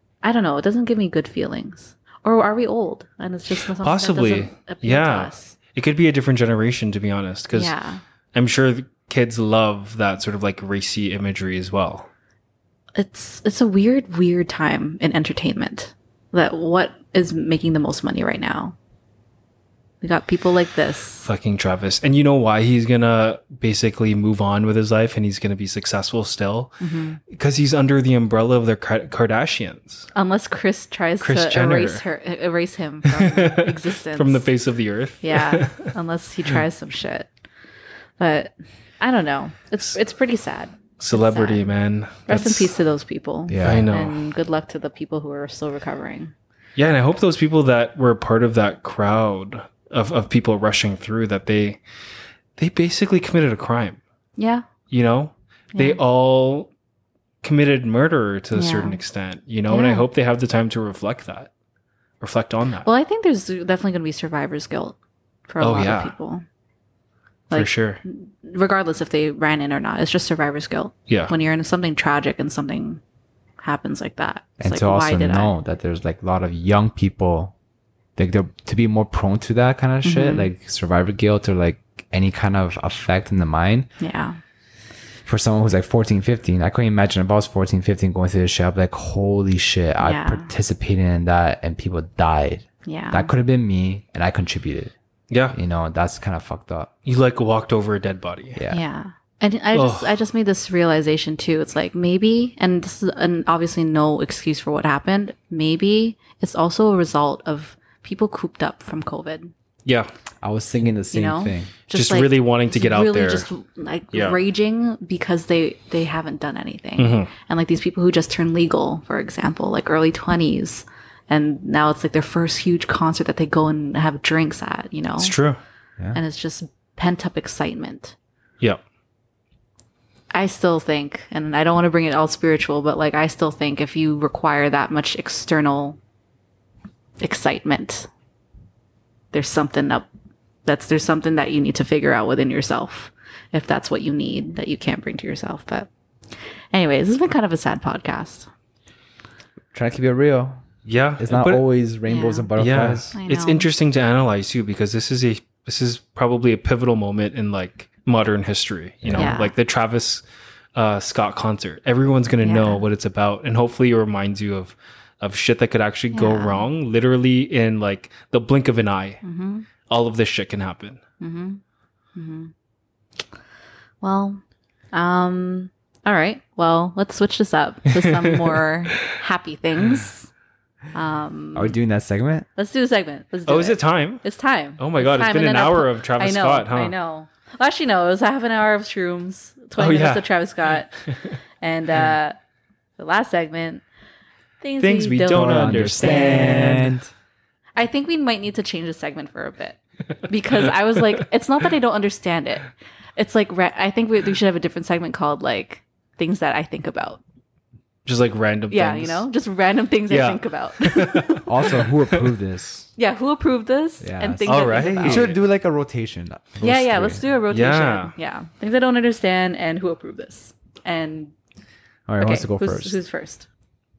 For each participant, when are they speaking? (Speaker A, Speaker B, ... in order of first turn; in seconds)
Speaker A: 0.2-5.5, 7.5-8.0, 12.9-18.7, 20.0-21.3, 26.8-27.2, 30.1-34.5, 35.2-37.3, 38.2-41.7, 42.3-46.3, 54.4-54.6, 55.7-56.0, 58.5-59.0, 59.7-60.1, 62.8-65.0, 65.5-66.4, 67.5-73.0, 73.6-75.5, 80.0-80.5, 84.0-84.4, 90.0-90.5, 92.8-93.3, 98.7-109.5, 111.1-125.3, 126.1-128.1, 130.3-136.0, 137.2-138.1, 139.3-140.1, 140.7-145.9, 146.7-148.5, 152.1-152.5, 153.1-153.7, 159.1-159.5, 162.4-162.8, 166.1-166.7, 169.2-169.7, 171.2-171.6, 172.1-172.5, 174.0-174.4, 174.9-180.3, 180.9-181.8, 182.6-190.9, 191.6-192.4, 193.0-193.8, 194.6-196.9, 197.8-207.2, 208.7-211.5, 212.9-215.3, 216.6-221.3, 222.2-223.5
Speaker B: 3.8-7.7, 8.3-12.1, 21.2-26.8, 27.3-30.1, 31.2-32.0, 33.1-35.9, 41.0-42.7, 43.6-44.2, 46.8-51.8, 52.6-54.0, 54.9-56.7, 57.4-61.5, 62.2-62.9, 65.6-66.1, 67.5-68.0, 95.3-95.6, 97.0-98.6, 99.7-100.1, 109.8-110.1, 111.9-113.5, 114.1-114.4, 117.0-117.3, 125.2-125.6, 150.8-151.6, 152.6-160.2, 160.7-169.2, 169.9-171.0, 177.9-178.6, 183.5-184.2, 184.8-186.9, 189.8-190.3, 194.8-196.9, 208.1-209.2, 210.1-212.3, 214.4-215.4, 217.5-218.1
Speaker C: 43.5-43.9, 74.6-77.5, 78.2-83.9, 85.2-94.9, 95.5-96.9, 98.5-98.8, 110.4-111.7, 149.7-150.7, 151.2-153.1, 159.0-159.4, 181.5-182.5, 195.3-197.1, 211.4-212.9, 214.0-217.2, 222.1-223.0